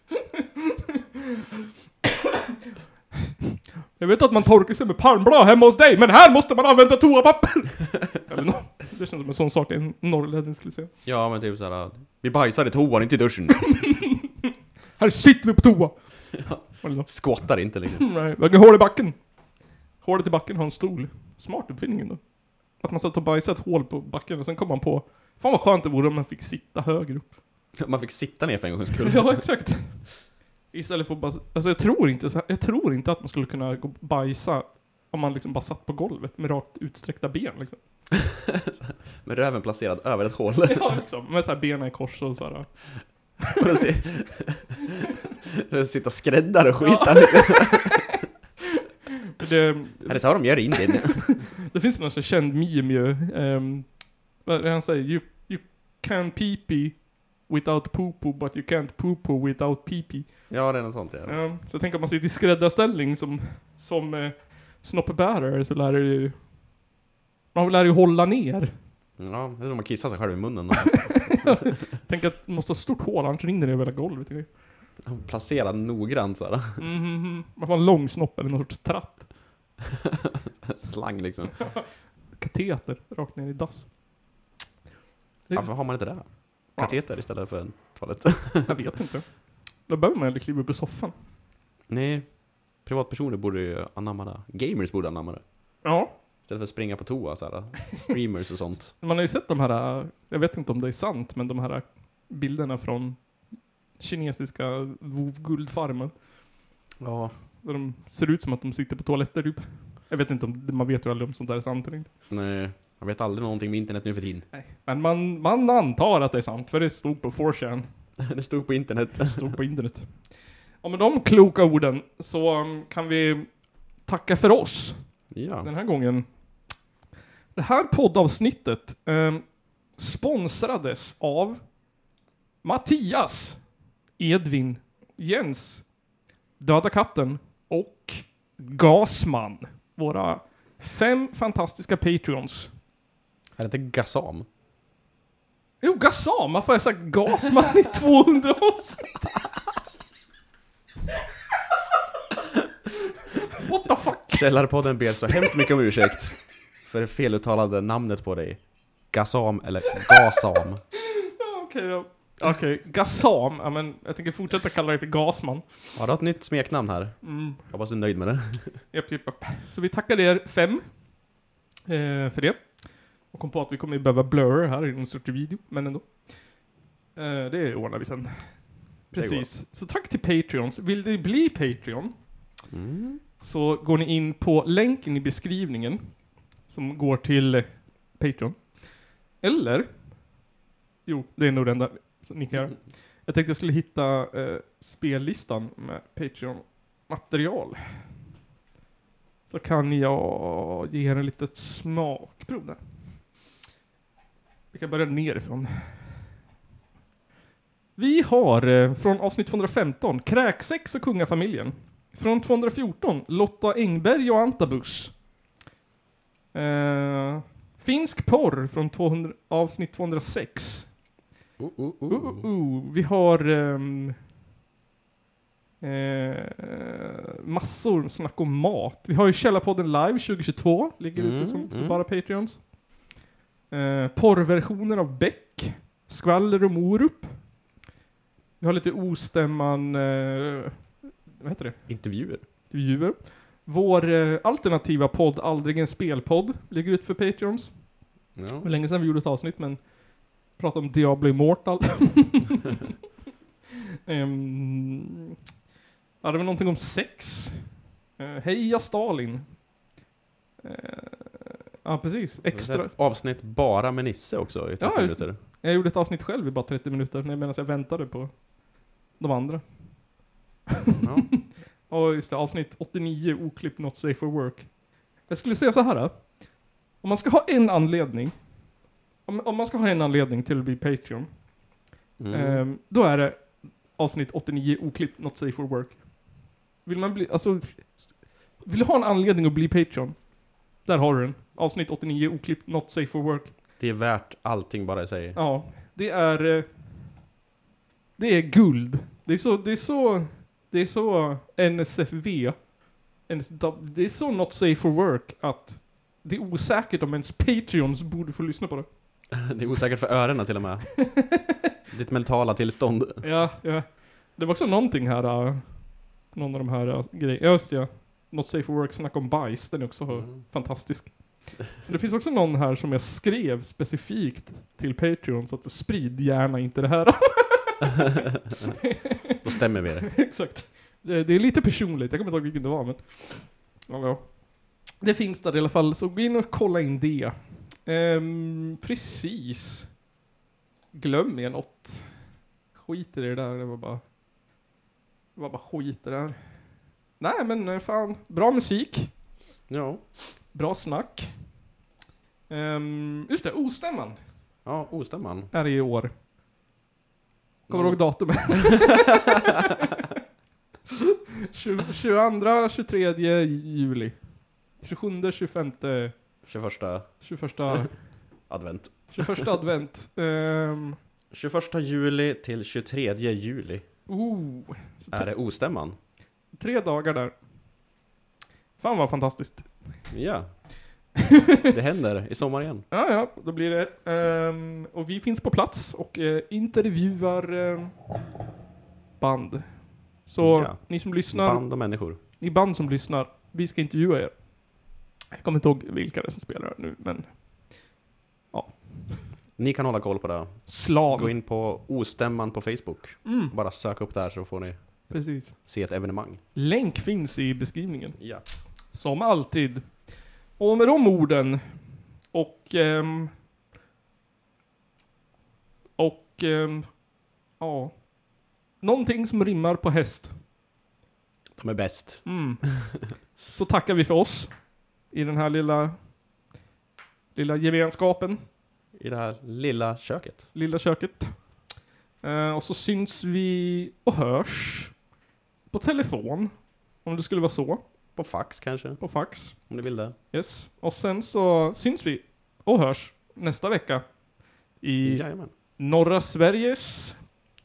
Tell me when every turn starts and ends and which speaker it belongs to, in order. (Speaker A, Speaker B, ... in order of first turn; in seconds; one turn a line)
Speaker A: 4.0-10.9
Speaker B: 11.0-13.8
Speaker A: 15.0-19.4
Speaker B: 16.5-18.0
Speaker A: 20.0-27.3
Speaker B: 27.8-29.4
Speaker A: 29.0-30.1
Speaker A: 30.7-37.8
Speaker B: 38.3-41.0
Speaker A: 40.6-43.3
Speaker B: 43.6-44.7
Speaker B: 45.6-48.0
Speaker A: 46.8-47.9
Speaker A: 49.3-51.0
Speaker B: 50.0-51.4
Speaker A: 51.6-66.4
Speaker B: 60.5-61.4
Speaker A: 67.5-68.7
Speaker B: 69.2-71.6
Speaker A: 71.0-74.5
Speaker B: 75.0-76.8
Speaker A: 76.8-79.3
Speaker B: 80.7-81.7
Speaker A: 82.3-84.0
Speaker A: 85.5-87.0
Speaker B: 85.5-88.8
Speaker A: 88.6-91.1
Speaker B: 91.9-95.8
Speaker A: 95.8-96.1
Speaker B: 96.5-98.9
Speaker A: 99.0-103.4
Speaker A: 103.9-106.1
Speaker B: 107.0-107.3
Speaker A: 107.6-112.1
Speaker B: 112.3-114.5
Speaker A: 114.5-117.9
Speaker B: 118.2-119.5
Speaker A: 119.2-126.5
Speaker B: 125.3-125.7
Speaker A: 127.5-131.8
Speaker A: 132.6-135.9
Speaker A: 136.6-142.7
Speaker B: 143.6-144.4
Speaker A: 145.8-149.3
Speaker A: 153.6-154.4
Speaker B: 154.3-160.8
Speaker A: 161.2-166.0
Speaker B: 165.9-168.8
Speaker A: 167.2-167.6
Speaker A: 168.9-171.2
Speaker A: 171.9-176.6
Speaker A: 177.1-182.3
Speaker B: 179.1-179.5
Speaker B: 182.7-183.2
Speaker A: 183.4-190.4
Speaker A: 191.0-198.1
Speaker A: 199.5-202.8
Speaker A: 204.7-206.1
Speaker A: 208.0-215.2
Speaker A: 216.5-220.9
Speaker B: 221.6-222.5
Speaker A: 222.1-224.2
Speaker A: 225.8-232.7
Speaker B: 231.2-232.0
Speaker A: 233.7-237.4
Speaker A: 238.6-252.6
Speaker B: 241.9-242.4
Speaker B: 248.3-248.7
Speaker A: 254.1-255.3
Speaker A: 256.2-259.6
Speaker A: 260.6-262.9
Speaker B: 262.4-265.4
Speaker A: 264.8-268.5
Speaker A: 269.1-270.2
Speaker B: 271.0-271.5
Speaker A: 271.4-278.5
Speaker A: 279.2-281.5
Speaker B: 282.2-282.6
Speaker A: 282.3-293.5
Speaker B: 293.8-295.4
Speaker A: 295.3-296.7
Speaker A: 298.2-308.9
Speaker B: 309.3-311.3
Speaker B: 311.9-313.2
Speaker A: 313.2-328.0
Speaker B: 320.1-320.4
Speaker A: 329.0-329.4
Speaker B: 329.4-330.1
Speaker A: 330.1-339.9
Speaker A: 340.9-344.0
Speaker A: 345.3-349.2
Speaker B: 349.7-350.0
Speaker A: 350.5-351.5
Speaker A: 352.5-354.2
Speaker B: 354.6-355.5
Speaker A: 355.5-356.1
Speaker B: 357.7-359.0
Speaker A: 357.7-359.4
Speaker A: 361.5-366.1
Speaker B: 366.4-367.9
Speaker A: 367.2-368.0
Speaker B: 368.5-369.5
Speaker A: 369.1-371.0
Speaker B: 371.3-373.9
Speaker A: 374.1-375.3
Speaker B: 375.1-376.0
Speaker A: 376.5-377.4
Speaker A: 378.8-379.9
Speaker B: 380.1-380.7
Speaker B: 381.7-382.8
Speaker A: 382.9-387.9
Speaker A: 389.2-394.5
Speaker B: 390.4-392.2
Speaker A: 395.3-397.7
Speaker A: 398.5-399.3
Speaker B: 399.6-406.4
Speaker A: 400.7-401.3
Speaker A: 403.2-403.5
Speaker A: 405.1-405.7
Speaker A: 406.5-408.3
Speaker B: 408.2-408.4
Speaker A: 408.9-413.3
Speaker A: 416.0-417.0
Speaker A: 417.6-418.1
Speaker A: 418.8-420.3
Speaker B: 421.6-422.9
Speaker A: 422.2-422.6
Speaker A: 423.4-426.0
Speaker A: 427.3-428.4
Speaker B: 428.9-430.5
Speaker A: 430.5-431.6
Speaker A: 432.2-434.9
Speaker A: 435.7-437.8
Speaker B: 438.1-440.1
Speaker A: 439.0-444.2
Speaker A: 444.8-447.3
Speaker B: 445.0-445.5